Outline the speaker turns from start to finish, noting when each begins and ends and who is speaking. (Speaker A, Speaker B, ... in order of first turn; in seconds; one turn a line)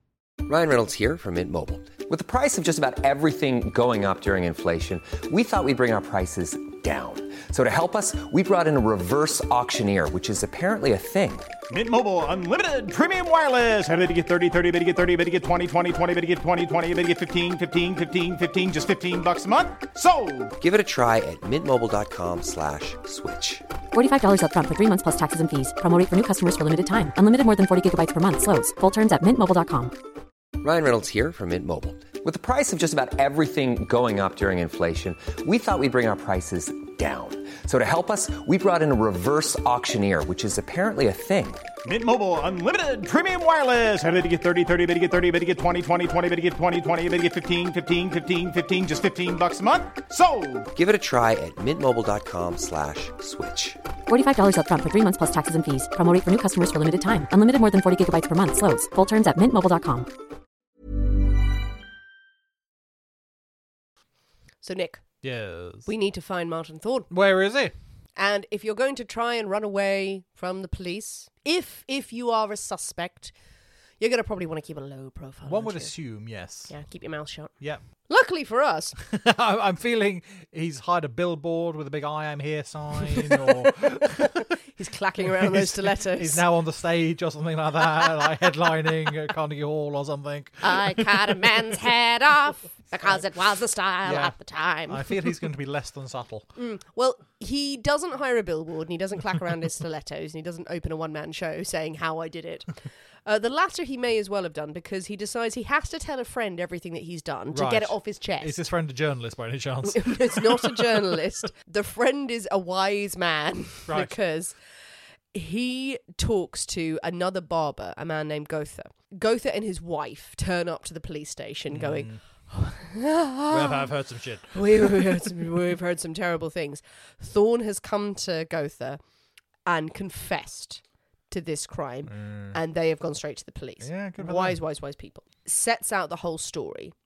Speaker A: 0.5-11.5
Speaker B: 11.7-20.5
Speaker A: 20.6-23.6
Speaker C: 23.9-29.9
Speaker A: 30.6-41.6
Speaker B: 41.8-50.7
Speaker A: 50.7-53.8
Speaker C: 54.1-60.1
Speaker D: 64.6-65.0
Speaker E: 65.2-65.9
Speaker D: 65.9-67.1
Speaker E: 67.1-67.7
Speaker D: 68.2-73.3
Speaker D: 74.0-75.9
Speaker E: 75.5-76.7
Speaker D: 76.7-77.5
Speaker D: 78.1-79.0
Speaker E: 79.0-84.6
Speaker D: 83.2-86.4
Speaker E: 85.2-91.5
Speaker D: 90.6-95.2
Speaker E: 94.0-94.3
Speaker E: 94.9-96.5
Speaker D: 96.6-102.7
Speaker D: 103.2-108.6
Speaker E: 107.5-111.1
Speaker D: 109.9-114.6
Speaker E: 113.9-114.2
Speaker D: 115.3-123.9
Speaker E: 121.7-122.2
Speaker E: 123.5-125.3
Speaker D: 124.5-129.0
Speaker D: 129.7-136.9
Speaker E: 132.1-132.6
Speaker E: 133.8-134.6